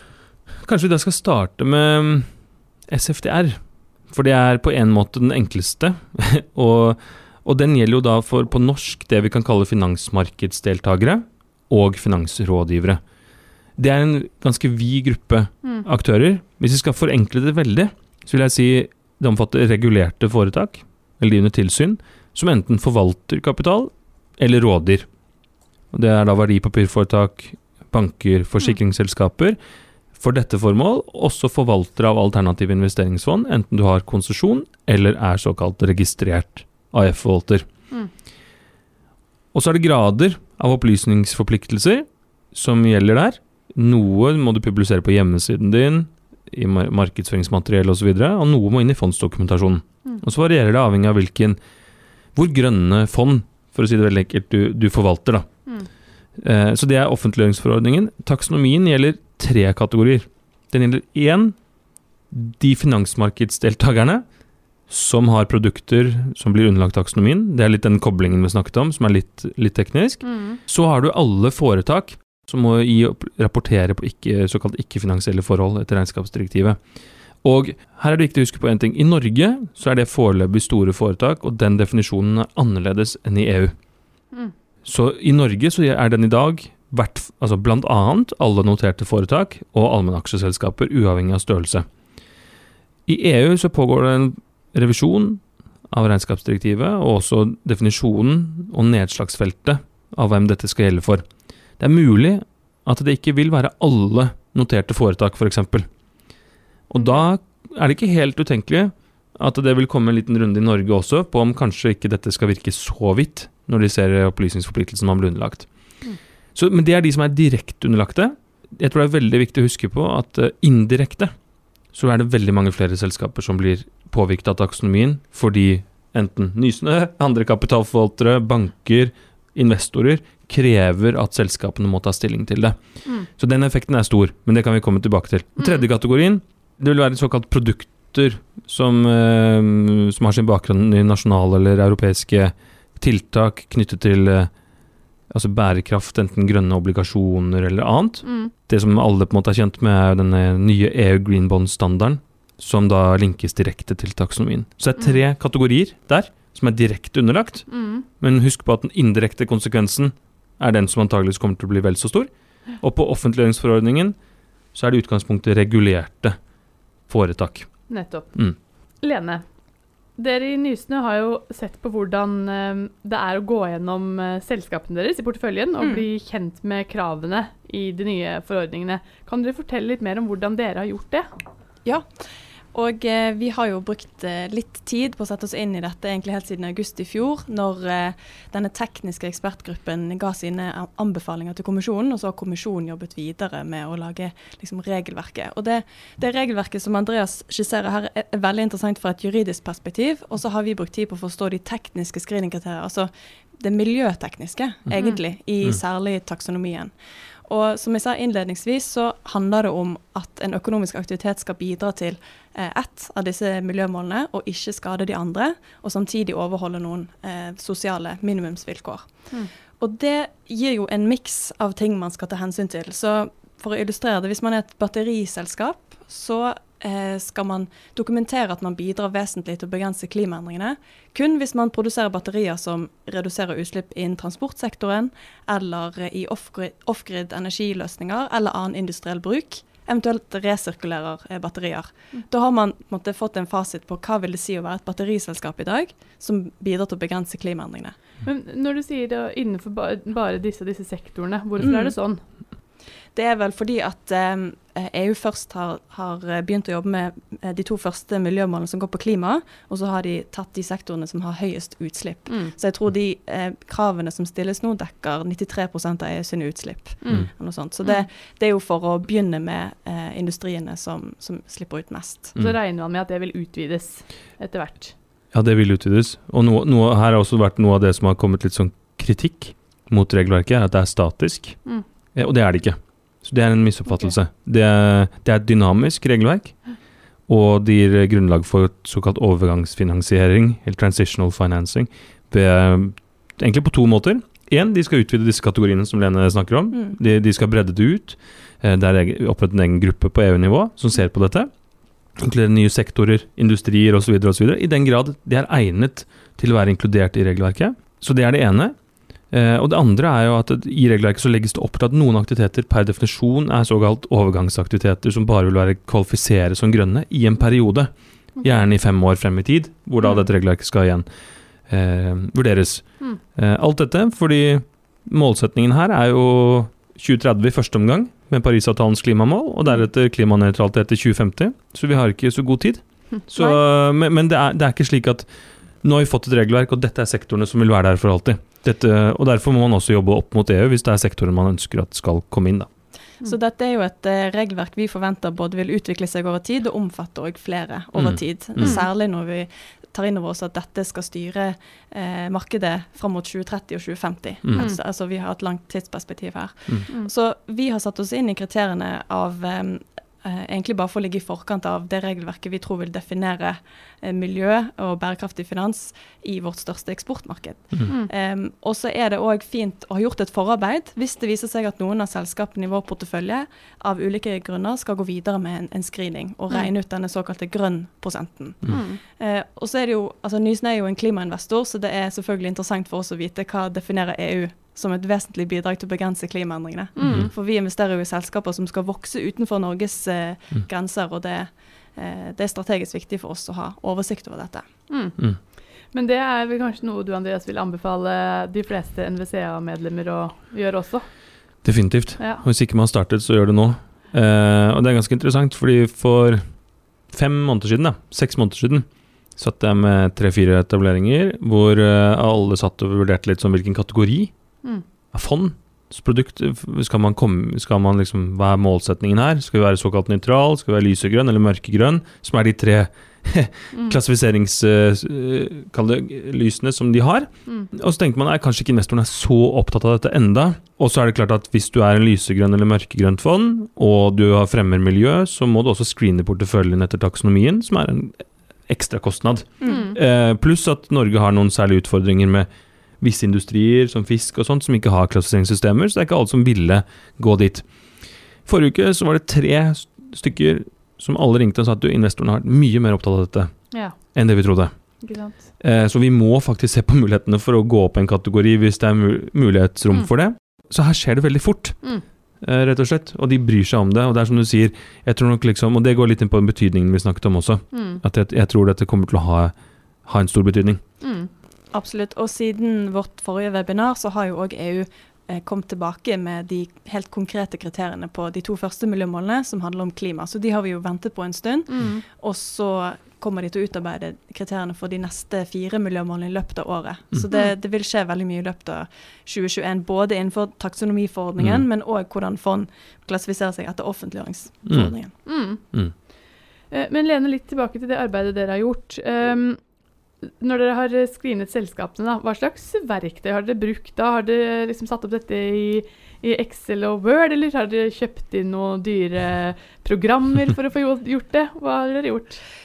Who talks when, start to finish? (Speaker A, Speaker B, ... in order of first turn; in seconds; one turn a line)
Speaker A: 0.6-2.3
Speaker A: 2.9-13.0
Speaker A: 13.8-25.1
Speaker A: 25.9-29.6
Speaker A: 30.1-37.7
Speaker A: 39.5-51.6
Speaker A: 52.4-55.5
Speaker A: 56.4-61.6
Speaker A: 62.3-64.2
Speaker A: 64.9-76.8
Speaker B: 70.2-70.6
Speaker A: 77.4-83.7
Speaker A: 84.8-91.9
Speaker A: 93.1-101.2
Speaker A: 101.8-105.9
Speaker A: 106.9-115.7
Speaker A: 116.5-121.3
Speaker A: 121.9-144.5
Speaker B: 135.6-135.8
Speaker A: 145.3-164.2
Speaker B: 148.2-148.5
Speaker B: 157.7-158.1
Speaker A: 164.7-166.4
Speaker A: 167.1-167.7
Speaker B: 167.9-168.3
Speaker B: 169.0-169.4
Speaker B: 170.2-181.3
Speaker C: 182.7-206.9
Speaker C: 207.5-248.0
Speaker B: 248.2-252.2
Speaker C: 251.6-251.9
Speaker C: 253.2-272.4
Speaker B: 262.3-262.5
Speaker B: 267.0-267.3
Speaker B: 272.4-274.9
Speaker A: 275.3-281.6
Speaker A: 282.1-286.6
Speaker A: 287.3-301.5
Speaker A: 302.2-308.8
Speaker A: 309.3-317.9
Speaker A: 318.4-321.1
Speaker A: 321.7-335.3
Speaker A: 335.8-342.7
Speaker C: 343.2-394.7
Speaker A: 348.0-348.8
Speaker B: 348.6-348.9
Speaker B: 378.7-379.0
Speaker B: 386.9-387.3
Speaker A: 387.1-387.3
Speaker B: 394.9-401.1
Speaker A: 401.6-406.4
Speaker B: 402.2-402.4
Speaker A: 407.1-414.3
Speaker A: 415.1-442.5
Speaker B: 423.7-424.0
Speaker C: 439.6-439.9
Speaker B: 439.6-440.0
Speaker A: 443.0-447.7
Speaker A: 448.4-455.0
Speaker B: 453.7-454.0
Speaker B: 455.0-455.5
Speaker A: 455.6-470.8
Speaker B: 467.7-468.0
Speaker B: 471.0-471.3
Speaker C: 471.7-495.1
Speaker B: 481.7-482.0
Speaker A: 491.4-491.6
Speaker A: 494.7-494.9
Speaker B: 495.2-495.6
Speaker A: 495.6-495.9
Speaker B: 496.7-499.6
Speaker B: 500.2-512.4